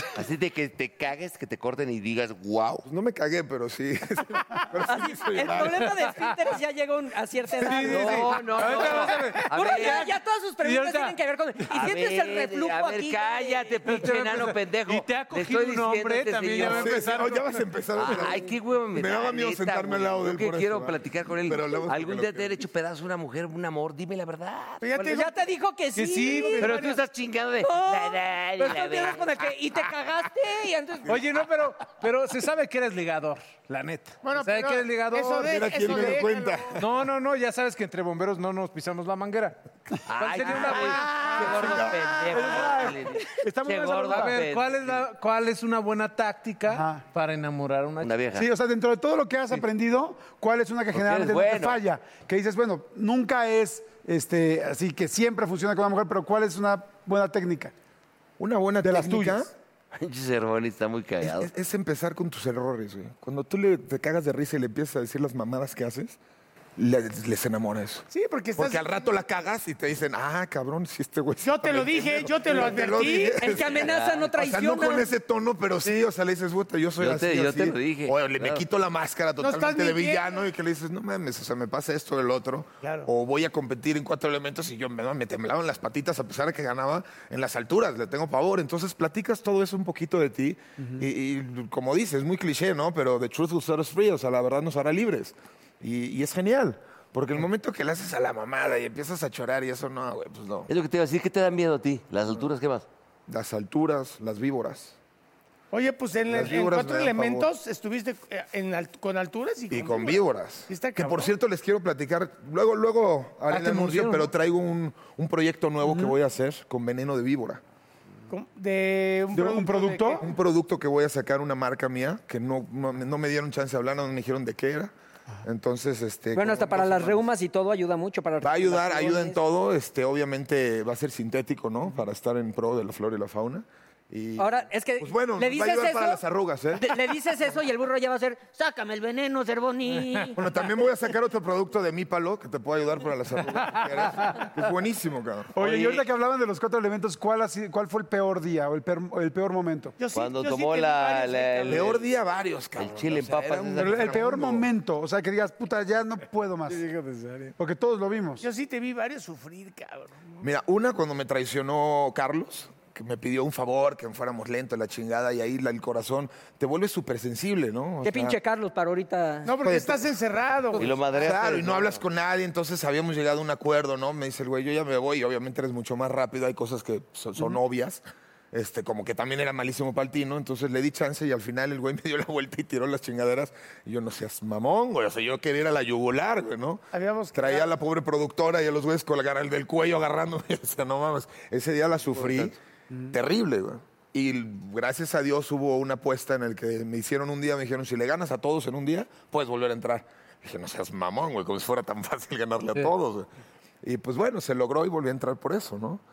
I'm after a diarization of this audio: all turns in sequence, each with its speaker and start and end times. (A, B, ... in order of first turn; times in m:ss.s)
0:00.2-0:02.8 A
0:02.8-0:06.0 B
0:04.8-0:13.8 C
0:05.8-0:06.4 D
0:07.6-0:10.0 D
0:07.8-0:10.1 A
0:10.6-0:11.2 D
0:11.7-0:17.2 A
0:13.8-0:17.6 D
0:16.6-0:22.6 B
0:18.0-0:24.9 A
0:24.8-0:25.3 E
0:25.0-0:27.0 C
0:25.9-0:26.9 D
0:26.6-0:29.3 A
0:27.6-0:31.4 C
0:31.0-0:36.2 D
0:34.2-0:36.6 E
0:35.4-0:36.9 B
0:36.7-0:43.0 D
0:40.0-0:45.1 A
0:41.1-0:41.4 E
0:42.3-0:44.4 F
0:44.0-0:48.1 D
0:46.7-0:47.0 F
0:48.0-0:48.5 A
0:48.3-0:57.7 F
0:50.9-0:51.8 A
0:58.4-0:59.5 B
0:58.8-0:59.4 F
0:59.9-1:01.5 A
1:01.2-1:06.2 B
1:06.8-1:40.7 B
1:08.1-1:09.1 E
1:11.4-1:13.4 E
1:13.4-1:15.1 C
1:13.4-1:14.3 A
1:17.0-1:18.6 A
1:19.4-1:20.4 E
1:22.8-1:23.1 E
1:40.7-1:42.8 A
1:43.3-1:45.0 B
1:45.7-1:51.3 E
1:46.2-1:47.5 B
1:49.7-1:57.6 B
1:53.5-1:54.3 D
1:55.8-1:56.1 F
1:58.3-2:00.2 E
1:59.3-2:00.2 F
2:00.2-2:04.9 B
2:05.4-2:07.3 B
2:06.3-2:09.4 C
2:08.4-2:17.2 B
2:14.4-2:16.2 C
2:16.8-2:20.4 C
2:19.9-2:20.2 D
2:20.3-2:25.7 B
2:23.5-2:24.1 D
2:25.5-2:29.9 F
2:25.7-2:26.0 D
2:30.0-2:31.9 E
2:30.1-2:32.1 A
2:31.7-2:34.6 B
2:32.8-2:34.6 A
2:33.8-2:36.8 F
2:36.7-2:37.5 D
2:37.6-2:38.4 F
2:38.4-2:40.4 E
2:40.4-2:48.4 B
2:48.0-2:49.5 C
2:49.4-2:50.9 E
2:49.6-2:50.1 B
2:50.8-2:52.0 A
2:51.1-3:12.6 B
3:06.9-3:07.7 E
3:12.1-3:12.5 A
3:13.1-3:23.3 B
3:23.8-3:26.0 B